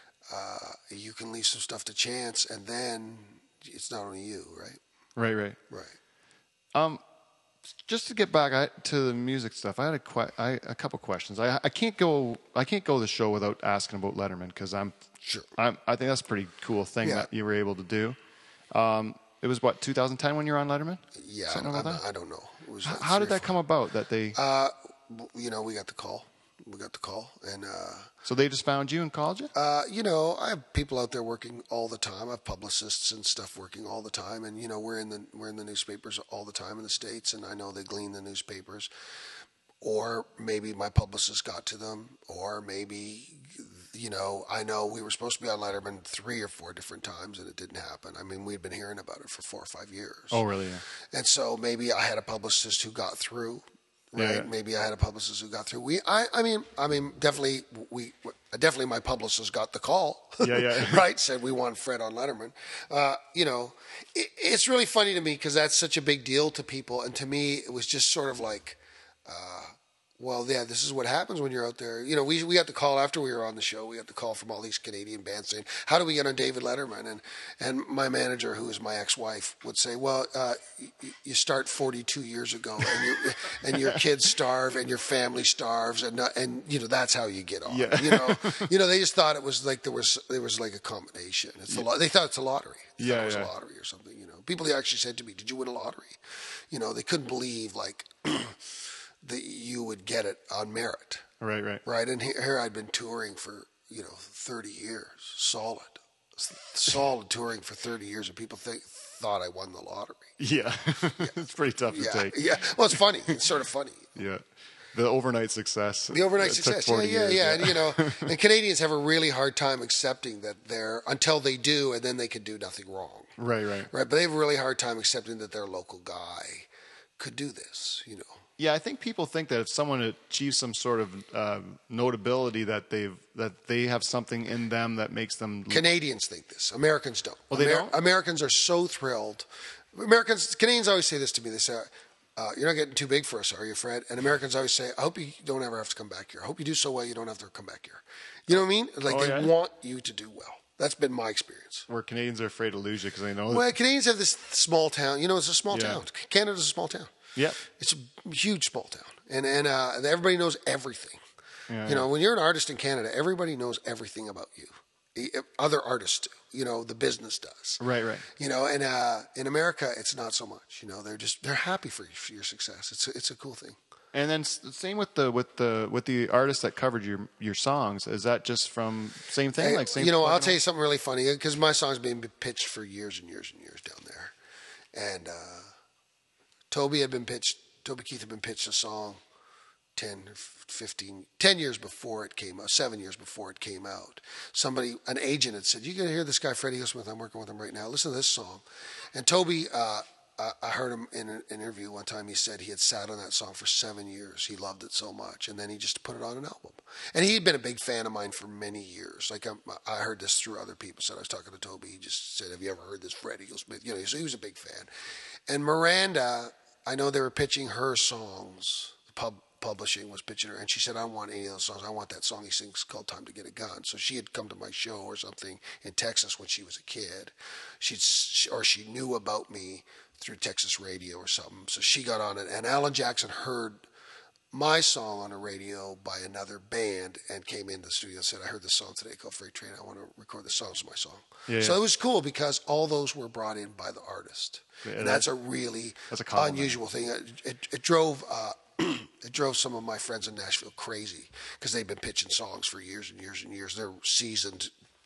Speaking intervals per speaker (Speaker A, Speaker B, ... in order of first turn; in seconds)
Speaker A: 0.3-4.8, 5.7-6.0, 15.2-15.5, 21.1-23.5, 24.3-28.1, 29.5-38.9, 39.8-50.4, 51.1-96.2, 96.7-101.3, 101.8-110.3, 111.9-114.2, 116.1-123.3, 123.9-128.4, 135.7-151.9, 153.5-161.2, 161.8-167.8, 168.3-173.8, 179.6-184.3, 184.9-185.7, 186.7-189.2, 189.9-214.9, 215.5-233.8, 234.5-254.7
Speaker B: 5.2-5.6, 6.7-7.0, 7.8-14.9, 15.6-18.2, 18.7-22.0, 22.8-24.4, 28.2-29.5, 50.3-50.8, 54.1-54.5, 60.4-61.0, 82.8-83.1, 83.6-84.0, 87.7-88.7, 93.0-93.5, 101.4-101.8, 110.4-113.4, 114.2-118.3, 123.4-123.9, 128.6-135.8, 137.5-137.9, 148.5-149.5, 151.9-153.6, 155.7-156.0, 161.7-162.1, 167.8-168.2, 174.1-180.6, 241.5-241.8, 244.8-245.3, 246.1-246.8